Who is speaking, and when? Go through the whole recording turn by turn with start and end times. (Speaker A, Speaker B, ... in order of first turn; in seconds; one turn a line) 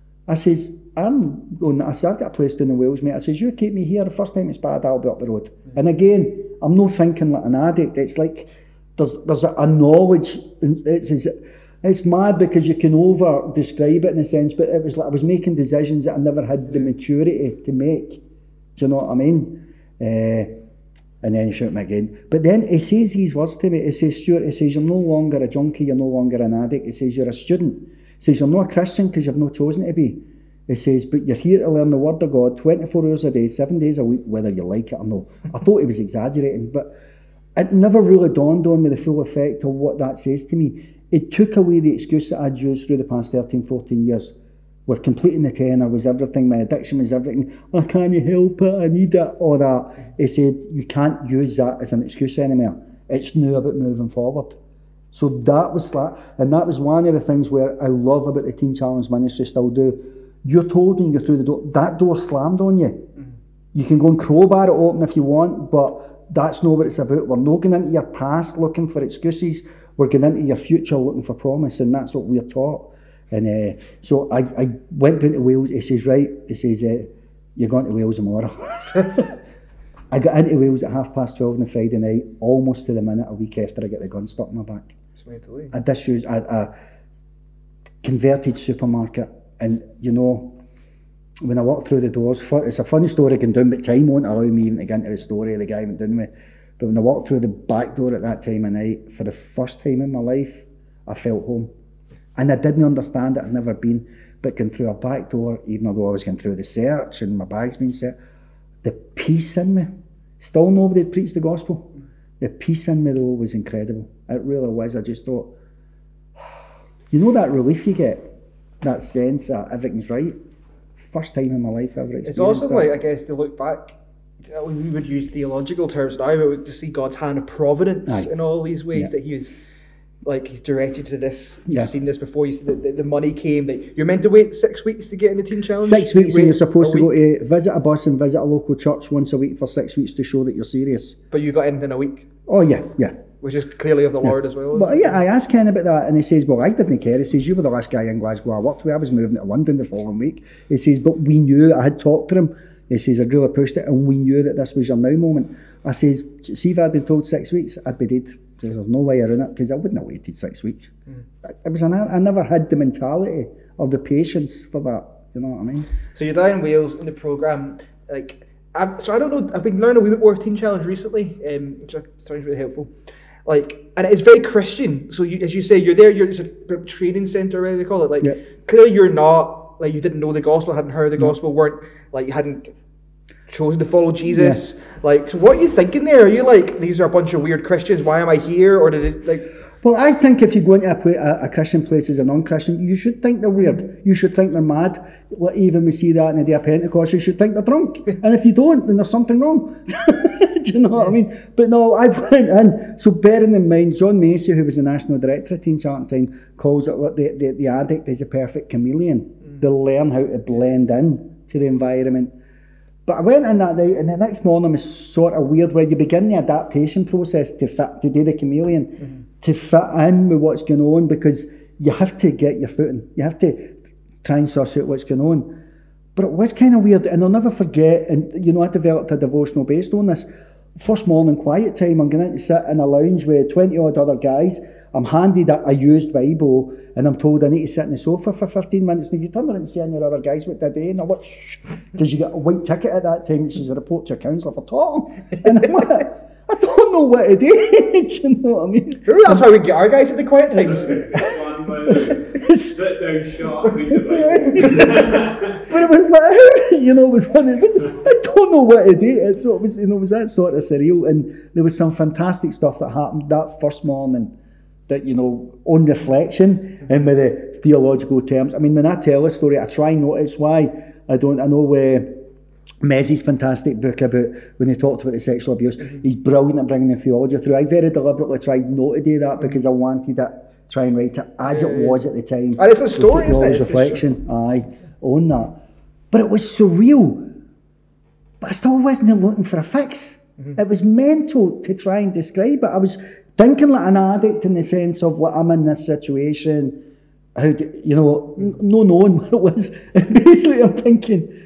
Speaker A: 0.3-18.2
Speaker A: 18.8-20.6
Speaker A: 21.2-36.9
Speaker A: 37.6-44.3
Speaker A: 44.9-54.6
Speaker A: 55.1-63.0
Speaker A: 63.7-79.4
Speaker A: 80.1-84.9
Speaker B: 85.2-85.7
Speaker A: 85.7-86.7
Speaker A: 88.0-90.6
Speaker A: 91.4-101.7
Speaker A: 102.3-108.2
Speaker A: 108.8-115.5
Speaker A: 117.1-120.4
Speaker A: 121.0-122.9
Speaker B: 122.2-124.0
Speaker B: 124.5-129.6
Speaker B: 130.2-137.1
Speaker A: 135.8-141.2
Speaker B: 141.3-142.3
Speaker A: 142.5-143.2
Speaker B: 143.4-145.2
Speaker A: 144.2-160.9
Speaker A: 161.4-165.9
Speaker B: 166.1-172.9
Speaker B: 173.5-182.7
Speaker B: 183.5-189.5
Speaker A: 184.3-184.6
Speaker A: 189.8-212.3
Speaker A: 213.1-225.5
Speaker A: 226.2-249.4
Speaker B: 249.1-251.2
Speaker C: 250.6-255.6
Speaker A: 251.9-252.8
Speaker A: 254.1-264.3
Speaker A: 264.9-272.2
Speaker A: 272.8-285.6
Speaker B: 281.5-282.0
Speaker B: 282.6-284.0
Speaker A: 286.1-287.3
Speaker A: 288.4-296.8
Speaker A: 297.4-301.3